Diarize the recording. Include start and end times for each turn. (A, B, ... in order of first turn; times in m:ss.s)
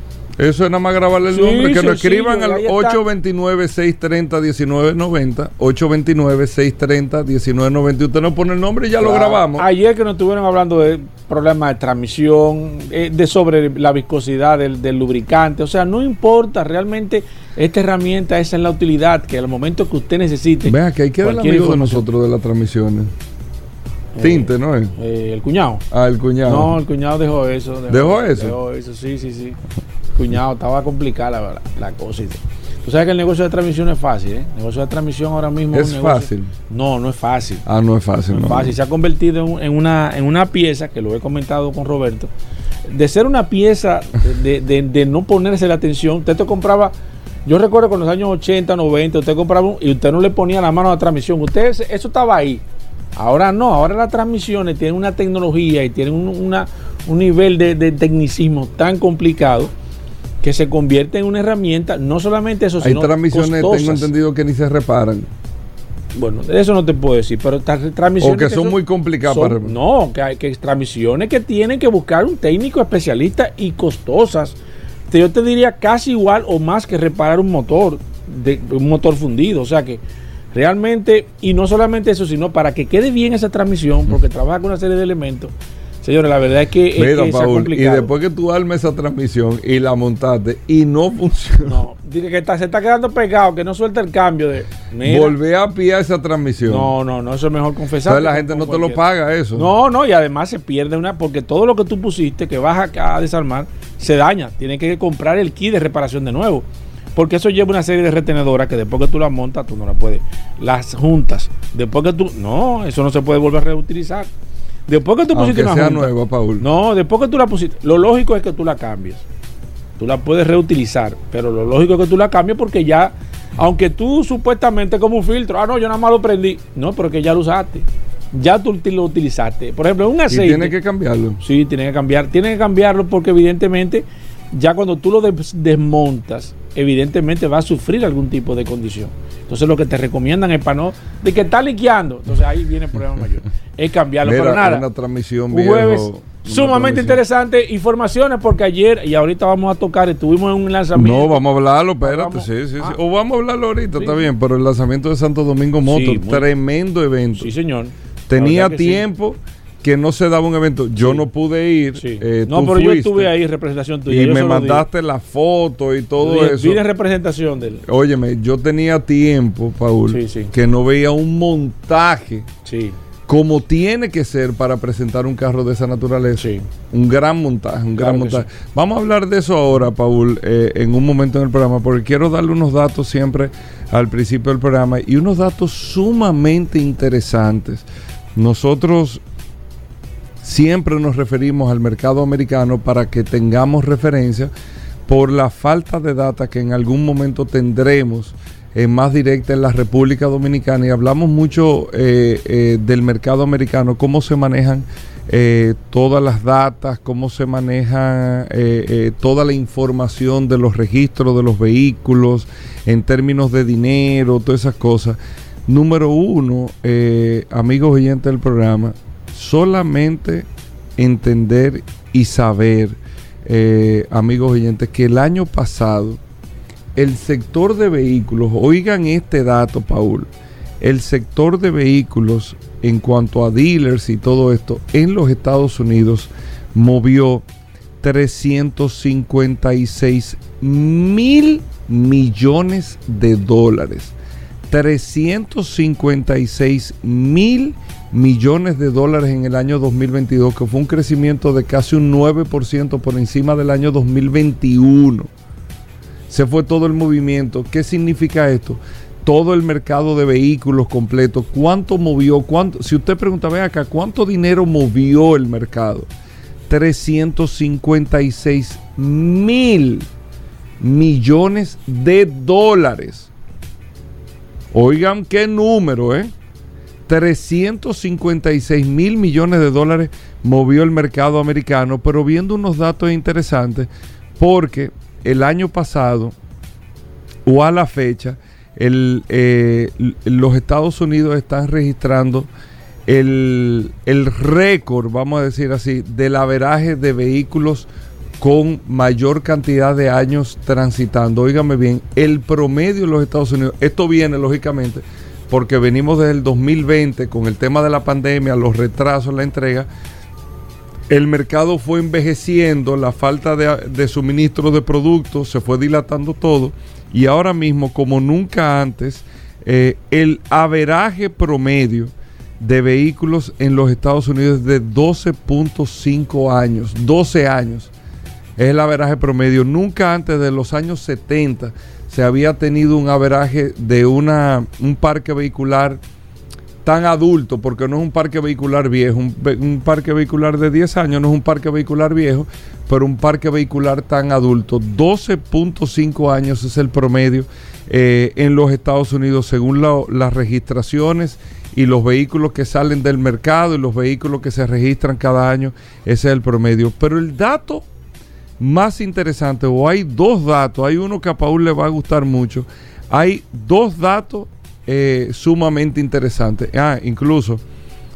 0:00.4-0:09.7 A
0:01.3-0:03.0 B
0:09.0-0:22.0 B
0:20.6-0:23.1 A
0:24.2-0:25.8 B
0:24.2-0:25.0 A
0:25.9-0:26.8 A
0:26.4-0:29.6 B
0:27.9-0:28.6 A
0:30.2-0:37.6 B
0:35.7-0:36.5 A
0:37.7-0:38.7 A
0:38.3-0:42.3 B
0:42.9-0:46.9 B
0:47.5-0:52.6 B
0:53.2-0:59.7 B
1:00.4-1:04.1 B
1:02.8-1:05.3 A
1:06.2-1:14.6 B
1:08.2-1:09.8 A
1:15.1-1:20.0 B
1:20.5-1:28.1 B
1:27.0-1:31.8 A
1:31.6-1:35.4 B
1:35.0-1:36.9 A
1:36.7-1:39.0 B
1:38.1-1:39.7 A
1:39.6-1:54.3 B
1:54.9-1:59.2 B
1:55.3-1:56.7 A
2:00.0-2:10.7 B
2:10.3-2:11.4 A
2:11.4-2:24.9 B
2:24.2-2:27.2 A
2:25.5-2:31.4 B
2:31.0-2:37.5 A
2:32.0-2:33.0 B
2:34.0-2:34.3 B
2:35.9-2:36.5 B
2:37.4-2:39.0 B
2:38.3-2:43.3 A
2:41.0-2:41.2 B
2:42.0-2:44.9 B
2:44.1-2:46.8 A
2:46.2-2:47.8 B
2:47.9-2:52.5 A
2:50.1-2:50.5 B
2:52.7-2:53.0 B
2:53.3-3:09.2 A
2:56.4-2:56.7 B
2:58.0-2:58.4 B
3:10.4-3:14.5 A
3:15.1-3:46.2 A
3:47.0-3:50.3 A
3:50.8-3:57.4 A
3:58.0-4:04.1 A
4:04.7-4:15.3 A
4:16.3-4:26.1 A
4:26.7-4:30.1 A
4:30.8-4:33.3 A
4:34.7-4:36.3 A
4:37.1-4:46.4 A
4:47.5-4:52.5 A
4:53.1-4:57.9 A
4:58.4-5:09.9 A
5:11.1-5:27.9 A
5:28.6-5:36.0 A
5:36.8-5:57.8 A
5:58.6-6:07.6 A